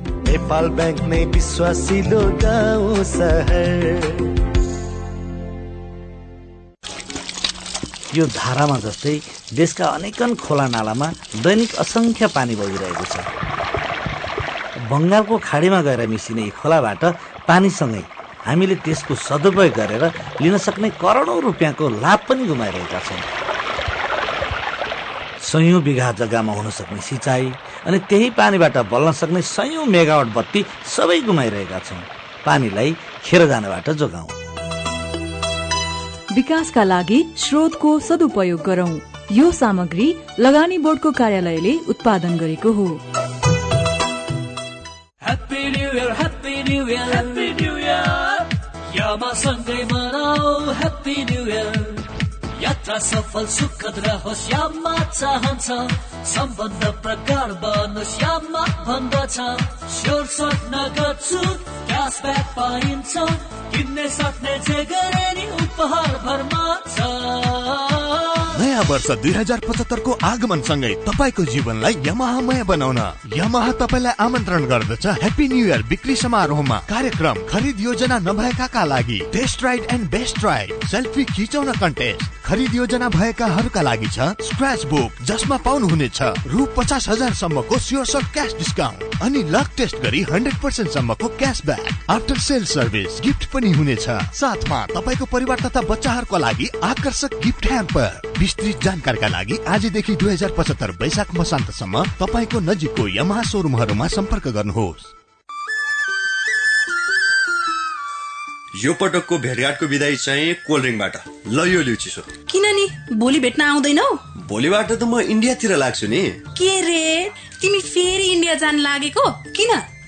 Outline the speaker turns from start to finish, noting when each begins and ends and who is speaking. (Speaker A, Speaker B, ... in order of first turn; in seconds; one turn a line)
Speaker A: 0.2-4.2
Speaker A: 8.1-13.3
Speaker A: 14.9-23.2
Speaker A: 25.4-34.3
Speaker B: 36.3-43.0
Speaker C: 45.2-52.0
Speaker C: 52.5-68.4
Speaker D: 68.5-105.1
Speaker E: 108.8-112.3
Speaker F: 112.5-114.2
Speaker E: 114.4-116.4
Speaker F: 116.5-119.8